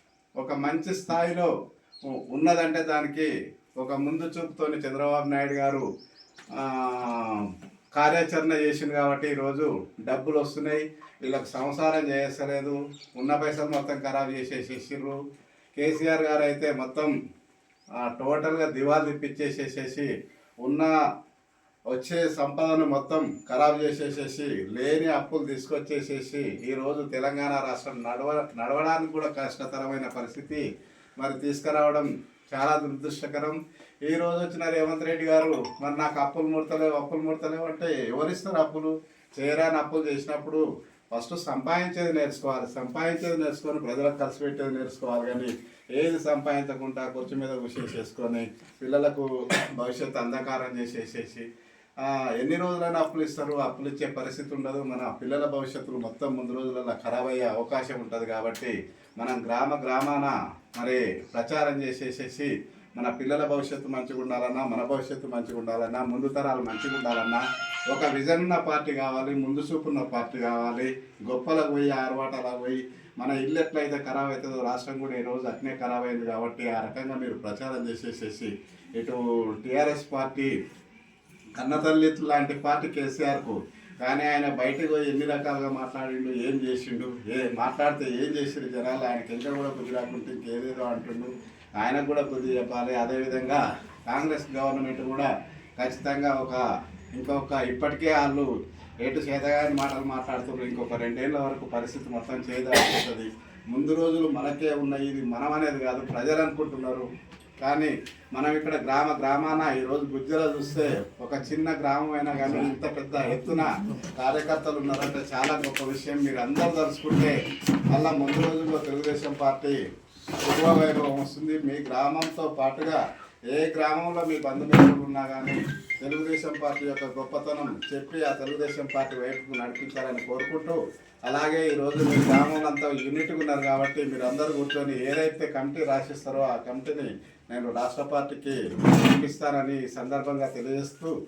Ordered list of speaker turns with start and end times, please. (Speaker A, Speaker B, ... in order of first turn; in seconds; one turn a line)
Speaker A: 0.4-1.5
Speaker A: 2.3-5.8
Speaker A: 6.5-15.2
Speaker A: 15.8-17.1
Speaker A: 18.0-20.1
Speaker A: 20.6-20.9
Speaker A: 21.9-30.6
Speaker A: 31.2-40.6
Speaker A: 41.1-51.5
Speaker A: 52.0-80.5
Speaker A: 81.5-96.6
Speaker A: 97.2-98.5
Speaker A: 99.0-107.1
Speaker A: 107.6-117.3
Speaker A: 117.9-119.8
Speaker A: 120.4-141.1